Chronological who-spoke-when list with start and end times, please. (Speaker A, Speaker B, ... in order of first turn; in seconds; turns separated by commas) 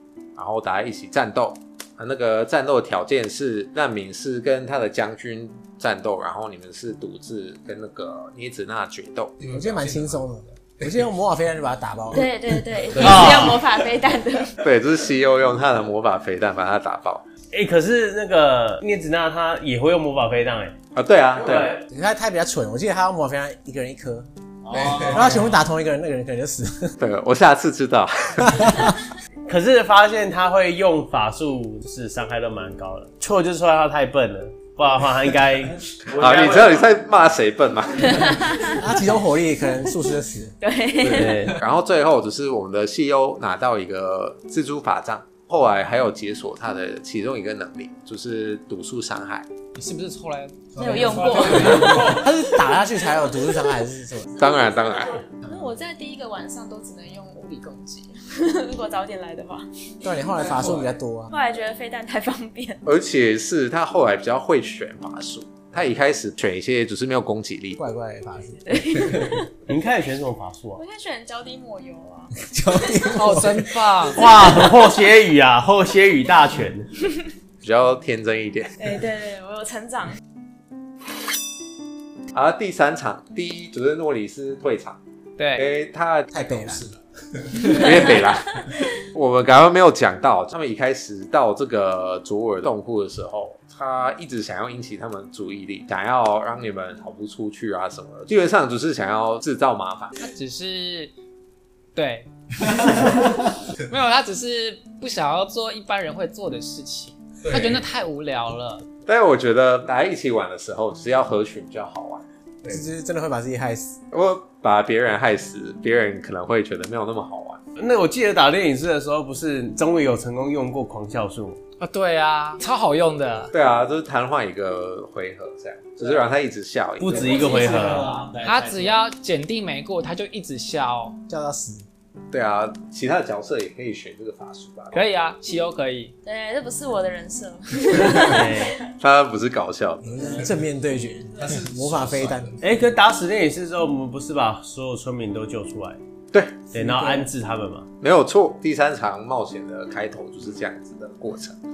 Speaker A: 0.3-9.8, Speaker B: 9.5-12.4, Speaker C: 12.1-14.6, Speaker D: 13.0-13.6, Speaker A: 14.6-17.2, Speaker D: 17.5-20.8, Speaker A: 20.9-21.8, Speaker D: 21.4-21.7, Speaker B: 21.8-24.3, Speaker D: 24.7-25.3, Speaker B: 24.9-27.0, Speaker A: 27.0-28.9, Speaker B: 28.4-28.9, Speaker D: 29.5-35.8, Speaker A: 36.0-38.5, Speaker C: 38.0-38.9, Speaker B: 38.6-40.5, Speaker C: 40.6-41.5, Speaker D: 41.0-41.5, Speaker A: 41.5-49.5, Speaker E: 49.7-52.0, Speaker C: 50.8-52.8, Speaker B: 51.6-54.3, Speaker C: 53.4-53.7, Speaker C: 54.4-59.9, Speaker A: 54.4-55.2, Speaker B: 60.0-61.3, Speaker C: 61.3-62.8, Speaker A: 62.9-67.8, Speaker B: 67.8-69.4, Speaker C: 68.6-69.5, Speaker D: 69.7-70.8, Speaker C: 70.7-73.1, Speaker B: 72.4-73.8, Speaker E: 73.1-74.3, Speaker D: 74.1-77.0, Speaker A: 77.6-78.8, Speaker C: 78.8-80.2, Speaker A: 82.3-85.0, Speaker E: 85.4-85.7, Speaker A: 85.5-100.2, Speaker B: 86.3-86.9, Speaker C: 87.7-88.0, Speaker E: 100.2-101.1, Speaker E: 101.9-108.8, Speaker A: 109.0-112.2, Speaker B: 112.6-114.0, Speaker A: 114.1-117.6, Speaker D: 117.8-121.6, Speaker E: 121.8-123.5, Speaker A: 123.5-128.0, Speaker D: 127.0-128.5, Speaker C: 127.8-128.1, Speaker E: 128.4-131.2, Speaker B: 131.3-131.8, Speaker A: 132.3-135.0, Speaker E: 134.9-136.1, Speaker C: 136.2-138.9, Speaker D: 138.1-138.7, Speaker A: 139.0-140.4, Speaker B: 140.0-142.6, Speaker D: 142.6-146.0, Speaker A: 146.3-146.7, Speaker D: 146.7-147.9, Speaker B: 146.9-147.2, Speaker A: 148.0-151.6